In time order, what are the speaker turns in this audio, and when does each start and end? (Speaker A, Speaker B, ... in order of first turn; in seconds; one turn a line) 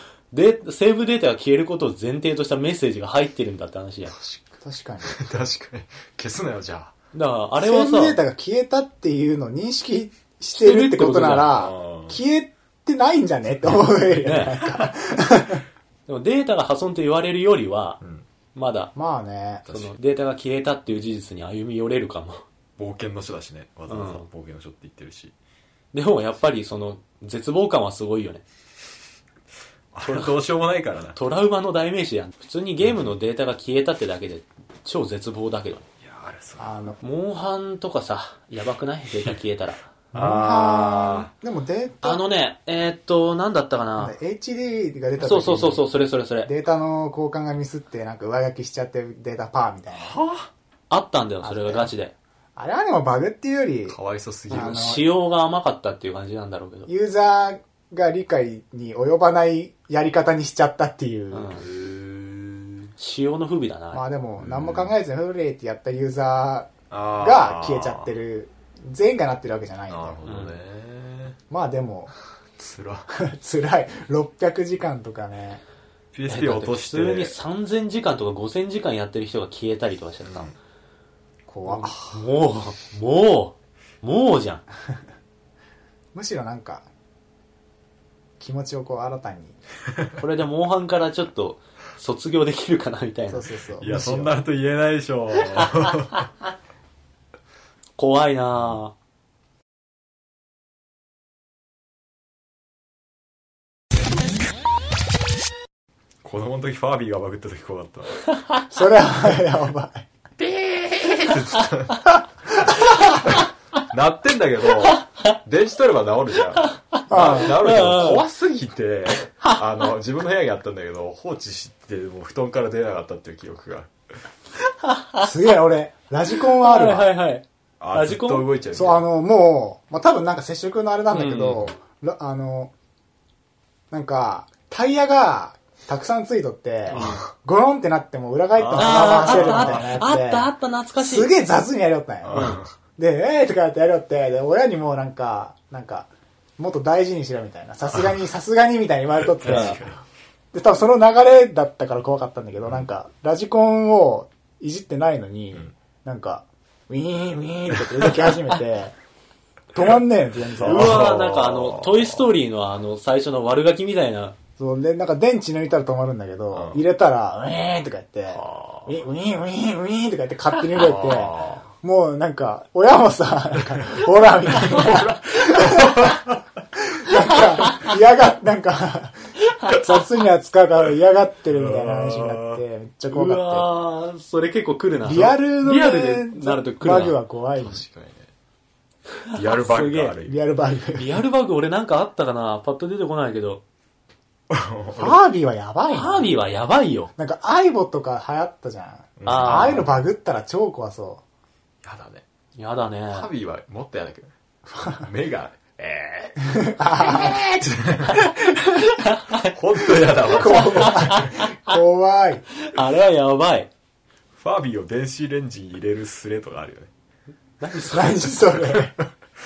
Speaker A: 0.3-4.1
Speaker B: 4.1-6.9
Speaker C: 4.6-5.1
Speaker A: 7.1-8.2
Speaker C: 7.6-15.6
Speaker A: 10.5-11.5
Speaker B: 11.4-12.2
Speaker A: 14.2-14.7
Speaker A: 16.1-18.0
Speaker B: 18.0-18.3
Speaker A: 18.6-18.9
Speaker C: 18.9-19.7
Speaker B: 19.7-20.0
Speaker A: 19.7-22.4
Speaker B: 22.8-25.3
Speaker A: 23.9-24.3
Speaker A: 25.9-28.4
Speaker B: 29.9-31.2
Speaker A: 30.0-30.3
Speaker A: 31.1-35.9
Speaker B: 32.8-33.1
Speaker B: 36.0-36.7
Speaker C: 36.6-37.0
Speaker A: 37.0-39.9
Speaker B: 40.1-41.3
Speaker C: 40.1-42.2
Speaker A: 42.0-44.1
Speaker C: 44.0-45.9
Speaker A: 45.2-46.5
Speaker C: 46.5-50.2
Speaker B: 50.0-50.5
Speaker A: 50.9-52.1
Speaker C: 51.4-51.9
Speaker C: 52.6-54.0
Speaker B: 53.9-54.9
Speaker C: 54.5-55.1
Speaker A: 54.5-56.9
Speaker C: 56.9-61.5
Speaker A: 61.3-61.6
Speaker B: 61.6-62.9
Speaker A: 63.0-64.0
Speaker C: 63.9-70.2
Speaker B: 64.4-64.9
Speaker B: 66.9-68.1
Speaker B: 69.9-71.4
Speaker A: 70.3-70.5
Speaker C: 71.5-72.1
Speaker B: 72.6-73.1
Speaker C: 73.1-75.6
Speaker B: 76.1-77.4
Speaker A: 76.3-80.5
Speaker B: 80.2-80.5
Speaker C: 81.5-82.0
Speaker A: 81.7-84.6
Speaker B: 81.9-82.2
Speaker C: 86.1-86.9
Speaker C: 88.4-89.6
Speaker A: 90.2-93.5
Speaker C: 93.3-94.4
Speaker B: 93.8-96.3
Speaker A: 95.6-95.9
Speaker A: 98.0-98.9
Speaker B: 106.2-108.3
Speaker C: 108.7-110.1
Speaker B: 110.4-112.2
Speaker A: 111.3-111.6
Speaker B: 113.2-123.9
Speaker A: 116.7-118.2
Speaker C: 117.1-117.6
Speaker A: 124.8-125.3
Speaker C: 125.2-127.1
Speaker A: 126.5-128.5
Speaker B: 127.8-129.0
Speaker C: 128.7-132.7
Speaker A: 131.1-131.6
Speaker C: 133.9-149.9
Speaker A: 136.9-137.2
Speaker B: 136.9-137.3
Speaker B: 138.6-140.0
Speaker A: 138.8-141.3
Speaker B: 142.2-142.7
Speaker A: 142.3-142.6
Speaker B: 147.9-148.2
Speaker B: 149.4-150.0
Speaker A: 149.4-149.8
Speaker C: 150.5-158.9
Speaker C: 159.7-161.2
Speaker B: 160.6-162.2
Speaker A: 160.6-164.4
Speaker C: 164.6-176.2
Speaker B: 166.5-166.8
Speaker B: 168.3-168.9
Speaker B: 170.7-171.7
Speaker B: 174.6-176.4
Speaker C: 176.9-183.7
Speaker B: 181.5-182.6
Speaker A: 183.1-187.2
Speaker C: 185.0-187.8
Speaker B: 187.6-188.3
Speaker A: 189.3-190.2
Speaker B: 189.3-190.4
Speaker C: 190.2-191.1
Speaker A: 190.9-193.6
Speaker B: 194.5-195.2
Speaker C: 194.9-196.3
Speaker A: 195.9-197.1
Speaker C: 197.2-201.2
Speaker B: 199.2-199.9
Speaker A: 199.2-199.9
Speaker B: 201.8-202.2
Speaker A: 202.6-203.3
Speaker B: 203.1-204.3
Speaker C: 204.7-205.1
Speaker B: 204.8-208.4
Speaker C: 206.4-207.4
Speaker C: 208.1-209.0
Speaker A: 209.0-209.5
Speaker B: 209.5-211.2
Speaker C: 210.2-212.4
Speaker A: 210.4-211.8
Speaker A: 212.6-213.7
Speaker B: 214.4-216.9
Speaker A: 217.6-218.3
Speaker C: 217.9-218.9